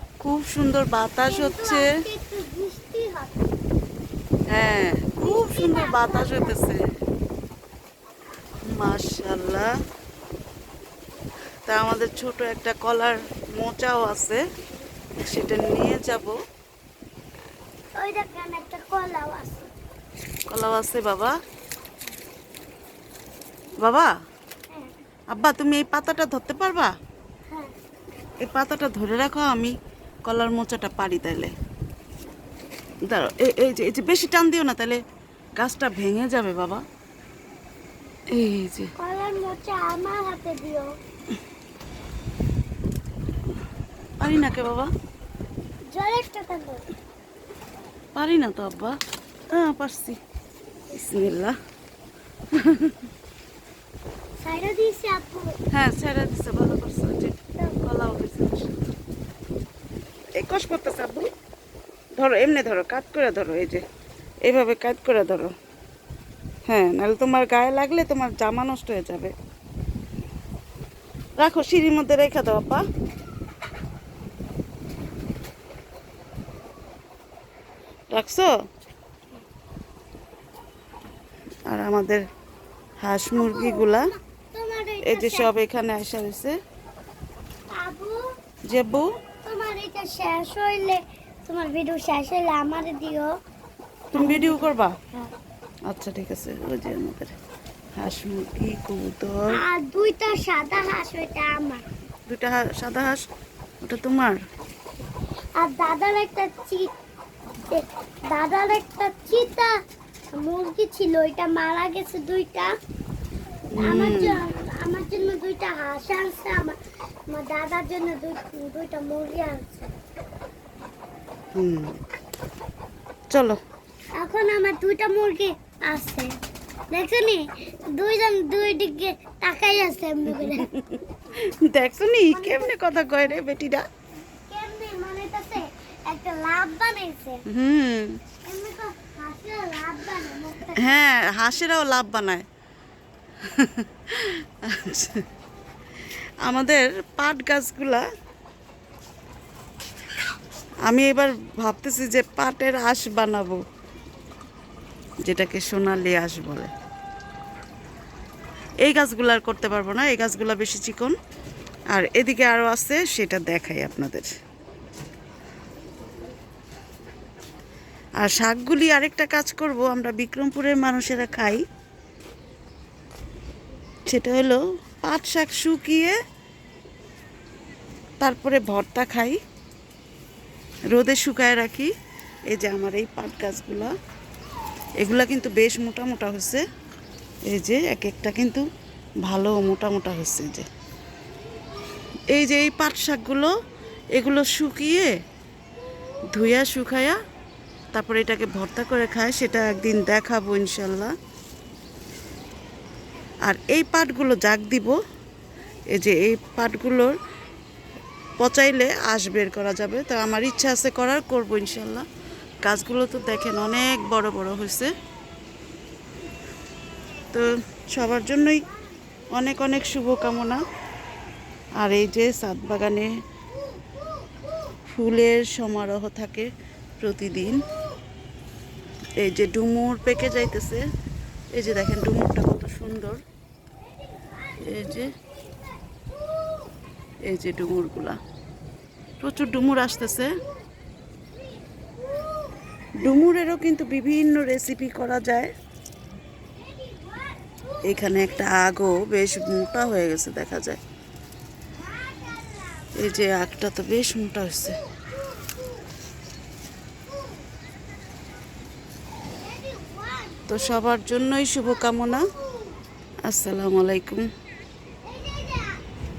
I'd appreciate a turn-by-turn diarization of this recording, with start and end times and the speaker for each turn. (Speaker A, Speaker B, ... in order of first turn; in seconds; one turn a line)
Speaker A: 0.2-1.9
Speaker B: 1.2-3.5
Speaker A: 4.5-6.8
Speaker B: 5.2-6.5
Speaker A: 8.7-9.7
Speaker A: 11.7-14.4
Speaker A: 15.2-16.4
Speaker B: 18.0-19.7
Speaker A: 20.5-21.4
Speaker A: 23.8-24.1
Speaker A: 25.3-26.9
Speaker A: 28.4-31.5
Speaker A: 33.1-35.0
Speaker A: 35.6-36.8
Speaker A: 38.3-38.9
Speaker B: 39.0-40.9
Speaker A: 44.2-44.9
Speaker B: 45.9-46.8
Speaker A: 48.2-49.0
Speaker A: 49.5-50.2
Speaker A: 50.9-51.5
Speaker A: 52.5-52.9
Speaker B: 54.4-55.6
Speaker A: 55.7-58.8
Speaker A: 60.4-61.3
Speaker A: 62.2-63.8
Speaker A: 64.5-65.5
Speaker A: 66.7-69.3
Speaker A: 71.4-72.8
Speaker A: 78.1-78.5
Speaker A: 81.7-82.2
Speaker A: 83.0-84.1
Speaker B: 83.3-85.5
Speaker A: 85.0-86.6
Speaker B: 87.7-88.2
Speaker A: 88.7-89.1
Speaker B: 89.5-93.3
Speaker A: 94.1-95.0
Speaker B: 94.2-95.3
Speaker A: 95.9-97.3
Speaker A: 98.0-99.5
Speaker B: 99.5-101.8
Speaker A: 102.3-103.2
Speaker A: 103.8-104.4
Speaker B: 105.6-106.9
Speaker B: 107.7-109.7
Speaker B: 110.3-112.7
Speaker A: 113.7-114.4
Speaker B: 113.8-116.8
Speaker B: 117.3-119.9
Speaker A: 121.6-122.0
Speaker B: 124.2-126.3
Speaker B: 126.9-127.4
Speaker B: 128.0-130.7
Speaker A: 130.5-130.9
Speaker A: 131.7-133.8
Speaker B: 132.3-132.7
Speaker B: 134.5-137.4
Speaker A: 137.5-138.2
Speaker B: 138.5-140.9
Speaker A: 140.8-142.4
Speaker A: 143.5-145.2
Speaker A: 146.4-148.0
Speaker A: 150.9-153.6
Speaker A: 155.3-156.7
Speaker A: 158.8-161.1
Speaker A: 161.9-164.3
Speaker A: 168.2-171.6
Speaker A: 174.1-176.2
Speaker A: 178.2-179.4
Speaker A: 180.9-181.9
Speaker A: 182.5-183.9
Speaker A: 185.0-186.6
Speaker A: 187.5-188.7
Speaker A: 189.2-190.7
Speaker A: 192.3-193.5
Speaker A: 194.2-195.1
Speaker A: 196.3-197.2
Speaker A: 197.9-201.1
Speaker A: 203.4-205.0
Speaker A: 205.9-207.2
Speaker A: 208.4-212.1
Speaker A: 212.6-214.9
Speaker A: 217.3-218.7
Speaker A: 219.3-220.6
Speaker A: 221.8-223.1
Speaker A: 224.9-226.5
Speaker A: 227.0-227.6
Speaker A: 229.2-230.8
Speaker A: 231.5-233.2
Speaker A: 234.6-235.1
Speaker A: 237.3-238.2
Speaker A: 239.2-240.3
Speaker A: 243.0-245.5
Speaker B: 246.6-247.4
Speaker A: 247.9-250.8
Speaker B: 251.8-253.4
Speaker A: 252.9-254.8
Speaker B: 259.4-260.8
Speaker A: 260.5-262.3
Speaker A: 263.3-264.2
Speaker B: 265.0-265.9